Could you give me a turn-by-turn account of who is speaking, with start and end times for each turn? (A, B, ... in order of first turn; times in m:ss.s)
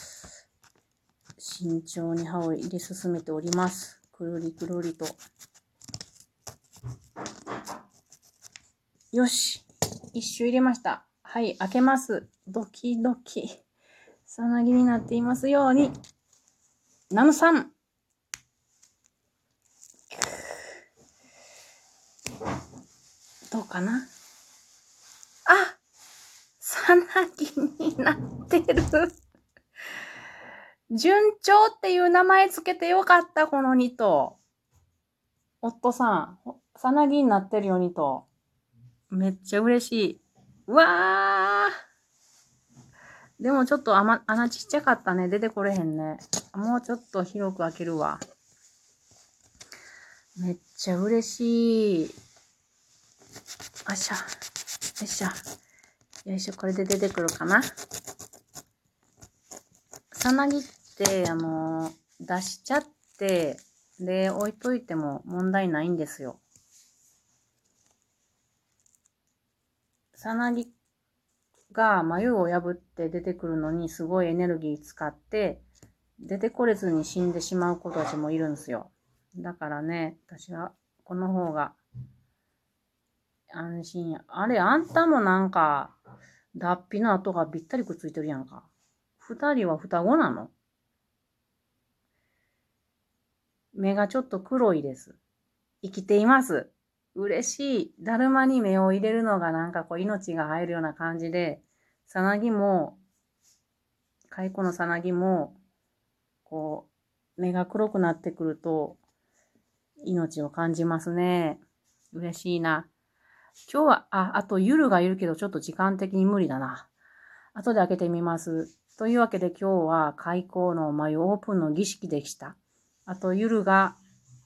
0:01.4-0:05.2 A
0:09.1-0:13.6 A
0:14.3-0:15.9 A
0:17.1-0:17.7 A
0:20.1-0:20.5 A
0:23.5-0:24.1 A
0:25.5-0:25.8 A
0:26.6-0:29.1 A
0:30.9-0:34.4 A
0:35.6-0:38.3 A
0:39.1-0:41.7 A
0:43.4-0:48.2 A
0:50.4-0:52.1 A
0:53.8-0:54.3 A
0:55.0-0:55.4 A
0:56.2-0:57.7 A
1:00.1-1:06.4 A
1:10.1-1:10.7 A
1:11.7-1:15.6 A
1:16.2-1:21.8 A
1:23.5-1:25.9 A
1:26.5-1:30.5 A
1:33.7-1:35.2 A
1:35.8-1:43.0 A
1:44.3-1:45.6 A
1:46.4-1:49.0 A
1:50.0-1:52.9 A
1:53.7-1:56.9 A
1:57.5-2:04.0 A